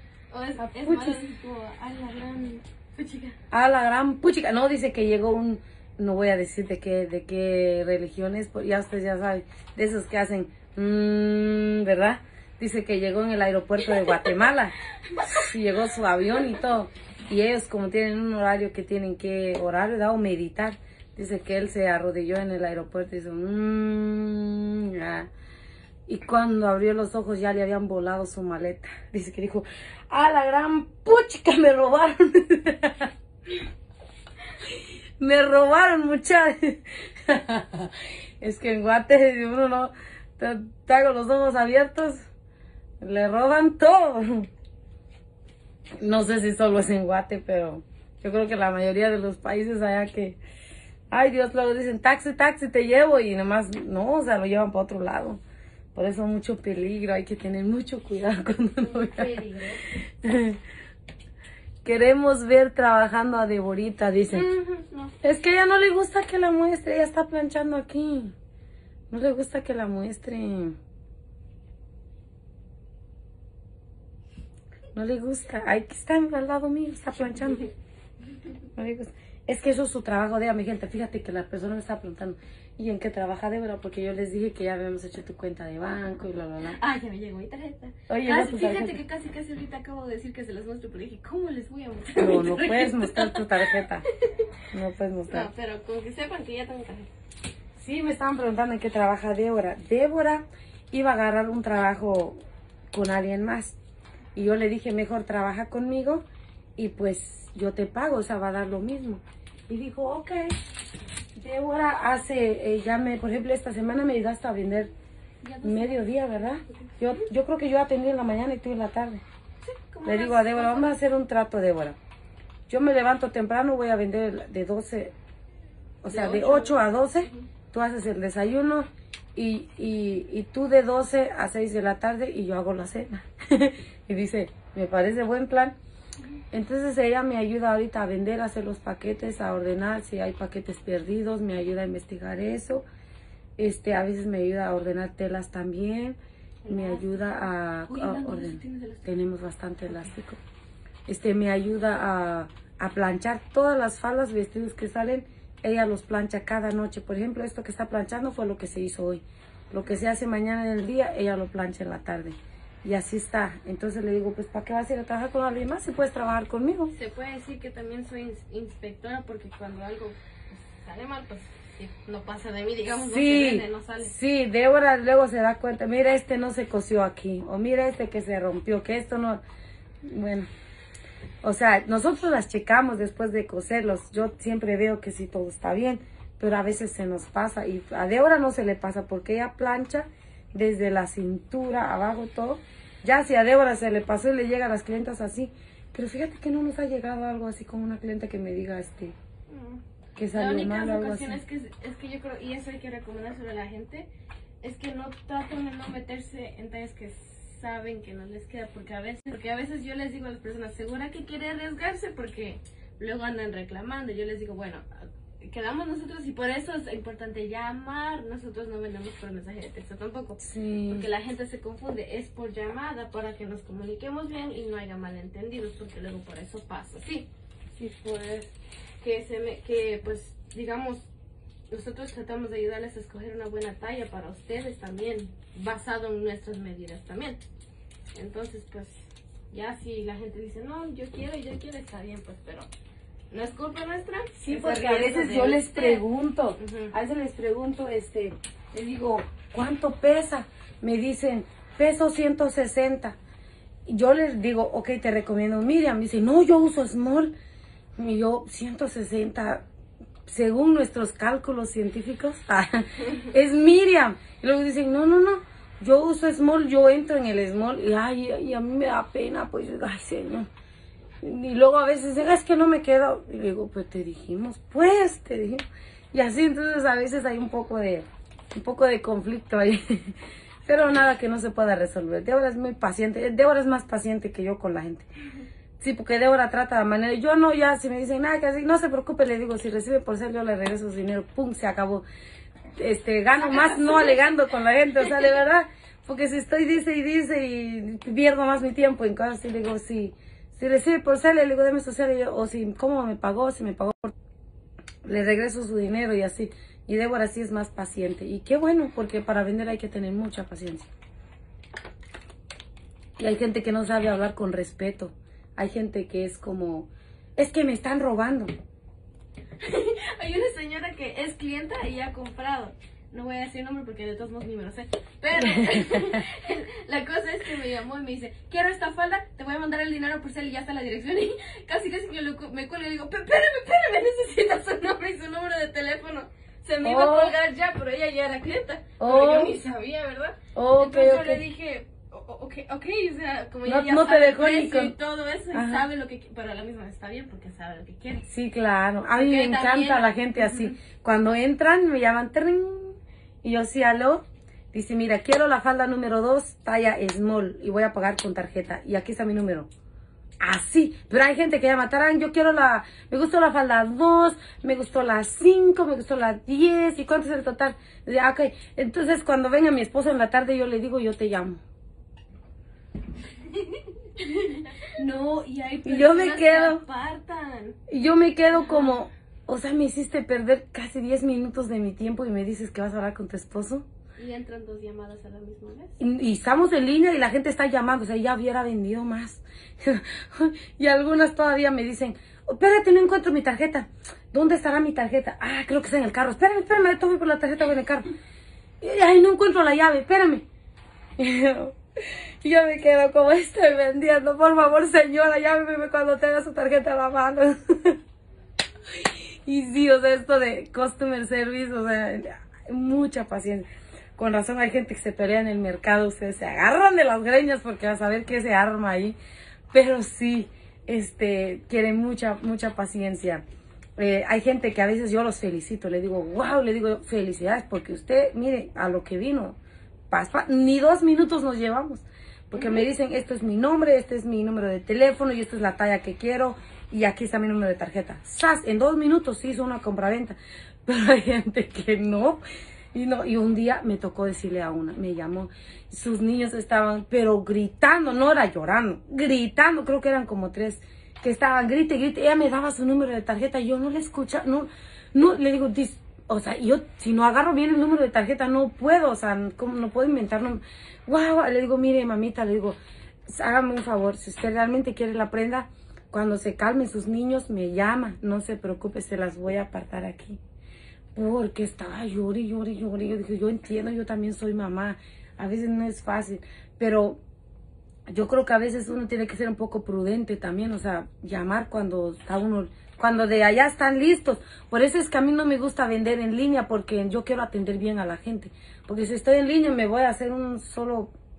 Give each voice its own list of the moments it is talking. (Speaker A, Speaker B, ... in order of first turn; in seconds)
Speaker A: 0.3-3.4, 14.1-14.3, 15.1-15.4, 58.8-59.8, 64.3-65.1, 86.7-94.5, 95.3-97.1, 115.4-117.3, 119.6-121.0, 126.1-127.5, 146.6-149.1, 166.9-174.1, 199.5-199.8, 200.3-204.1, 204.6-227.3, 229.0-231.1, 231.7-237.4, 238.1-242.7, 243.3-246.0, 246.6-246.9, 293.4-294.2, 319.6-348.2, 349.1-350.7, 373.4-377.8, 378.6-379.0, 384.2-386.0
Speaker B: 0.6-1.2, 3.5-25.3, 26.1-33.1, 34.7-42.2, 43.0-44.5, 46.0-50.4, 51.1-55.4, 55.9-59.4, 59.9-60.6, 61.8-64.5, 65.2-68.3, 69.1-70.8, 74.9-77.7, 78.7-86.8, 88.1-89.0, 92.1-94.0, 94.7-95.5, 97.8-103.8, 104.3-106.2, 106.8-110.6, 111.3-114.9, 115.6-119.2, 120.0-122.0, 122.7-125.1, 126.0-135.8, 136.5-142.8, 143.6-150.4, 151.1-166.9, 173.1-179.4, 180.0-180.5, 181.4-199.2, 200.2-201.4, 220.4-221.1, 227.8-228.5, 244.4-253.2, 253.8-257.3, 258.0-259.6, 260.2-270.5, 271.2-285.1, 285.8-292.0, 292.8-304.1, 305.0-310.9, 313.2-318.5, 325.4-326.2, 336.8-337.3, 339.0-339.6, 340.5-341.4, 343.6-344.9, 345.5-345.8, 348.3-359.7, 360.4-371.6, 375.8-376.8, 377.9-383.9, 386.0-398.1, 398.8-400.4, 401.2-408.0, 408.9-413.6, 414.2-419.2, 419.7-423.4, 424.0-429.6, 430.1-442.4, 442.9-470.4, 471.1-477.2, 478.1-491.1